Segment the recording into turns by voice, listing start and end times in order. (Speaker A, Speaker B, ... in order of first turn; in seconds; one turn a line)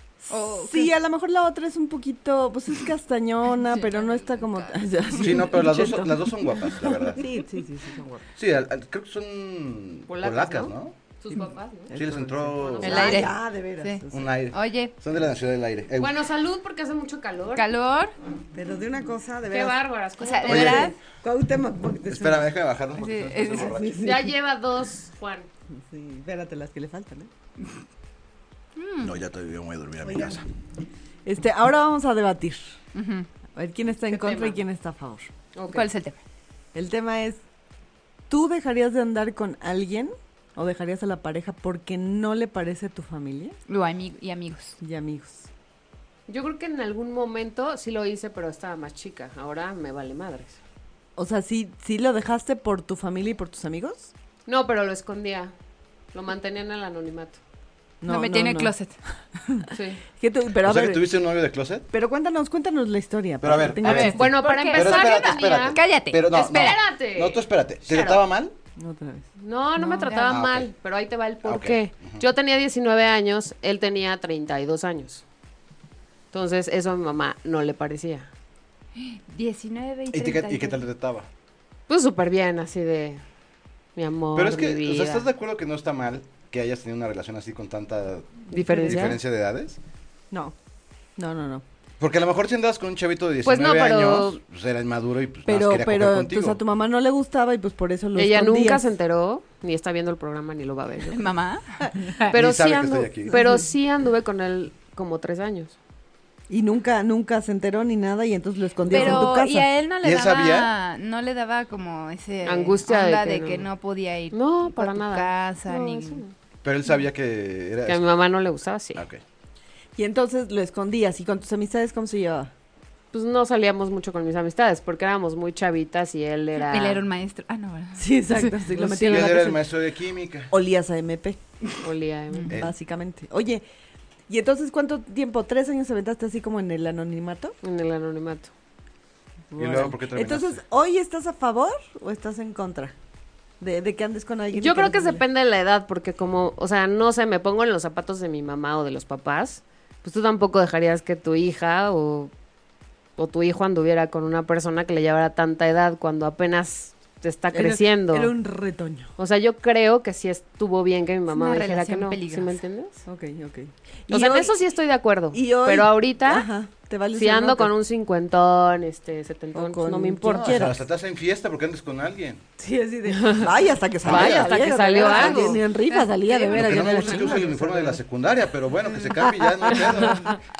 Speaker A: 0.3-0.9
Speaker B: 0.6-8.2
Speaker A: 3.7-5.3
Speaker C: 5.2-7.2
Speaker C: 8.4-10.9
Speaker D: 10.1-11.9
Speaker B: 11.3-14.3
Speaker C: 11.9-13.3
Speaker D: 12.6-13.3
Speaker A: 12.8-14.9
Speaker C: 14.1-16.2
Speaker D: 16.0-17.6
Speaker A: 17.6-18.1
Speaker B: 18.5-19.8
Speaker D: 19.5-20.9
Speaker A: 20.2-20.9
Speaker C: 20.5-20.9
Speaker B: 20.7-22.5
Speaker C: 22.1-24.1
Speaker A: 23.0-23.8
Speaker B: 23.5-24.3
Speaker D: 24.0-25.5
Speaker B: 25.7-27.3
Speaker A: 28.8-29.1
Speaker C: 29.0-30.4
Speaker B: 30.0-30.4
Speaker B: 31.2-32.6
Speaker A: 33.0-33.3
Speaker B: 33.5-35.3
Speaker D: 34.1-34.6
Speaker D: 35.5-35.9
Speaker A: 35.7-36.2
Speaker B: 36.7-37.4
Speaker B: 38.3-43.6
Speaker A: 43.7-44.8
Speaker B: 44.8-45.5
Speaker D: 46.3-50.6
Speaker B: 51.2-54.1
Speaker D: 54.5-55.5
Speaker D: 56.1-57.4
Speaker B: 58.0-58.7
Speaker A: 58.1-59.0
Speaker D: 59.7-60.0
Speaker B: 60.2-61.1
Speaker C: 60.6-61.9
Speaker B: 61.9-64.3
Speaker C: 63.4-68.5
Speaker A: 63.8-66.8
Speaker D: 64.0-68.2
Speaker B: 68.8-69.3
Speaker D: 69.4-75.2
Speaker A: 69.8-70.4
Speaker C: 70.3-70.7
Speaker C: 71.4-72.2
Speaker D: 76.3-78.3
Speaker A: 79.0-80.8
Speaker C: 80.1-81.3
Speaker D: 81.9-83.2
Speaker D: 84.0-85.3
Speaker C: 84.3-89.8
Speaker D: 88.5-89.2
Speaker B: 88.5-89.2
Speaker B: 91.2-91.6
Speaker C: 92.0-96.6
Speaker D: 93.5-94.4
Speaker B: 95.5-98.8
Speaker D: 98.2-101.2
Speaker A: 101.1-102.3
Speaker D: 102.3-105.8
Speaker C: 102.3-103.4
Speaker B: 103.3-103.6
Speaker B: 106.5-109.7
Speaker D: 108.9-109.3
Speaker A: 108.9-116.2
Speaker C: 110.0-110.7
Speaker D: 112.5-113.7
Speaker D: 114.3-116.3
Speaker C: 116.6-118.0
Speaker D: 117.8-119.0
Speaker C: 119.0-119.2
Speaker B: 120.0-122.5
Speaker D: 123.1-127.0
Speaker A: 126.6-128.6
Speaker B: 128.0-129.6
Speaker C: 128.9-130.5
Speaker D: 129.0-129.2
Speaker B: 130.5-131.4
Speaker D: 131.8-132.5
Speaker C: 132.5-132.7
Speaker B: 132.5-133.6
Speaker B: 134.3-137.6
Speaker D: 137.6-138.5
Speaker B: 139.5-142.9
Speaker C: 139.6-140.6
Speaker B: 143.6-145.2
Speaker D: 144.5-152.3
Speaker D: 153.2-158.3
Speaker B: 157.5-159.1
Speaker D: 159.2-163.0
Speaker A: 161.3-162.6
Speaker B: 163.1-164.5
Speaker D: 164.1-166.5
Speaker B: 165.3-167.7
Speaker D: 167.1-170.7
Speaker B: 169.6-170.8
Speaker C: 170.3-172.4
Speaker B: 172.6-178.0
Speaker D: 173.1-175.6
Speaker C: 174.0-175.5
Speaker A: 175.5-177.3
Speaker C: 176.5-180.4
Speaker B: 179.1-180.2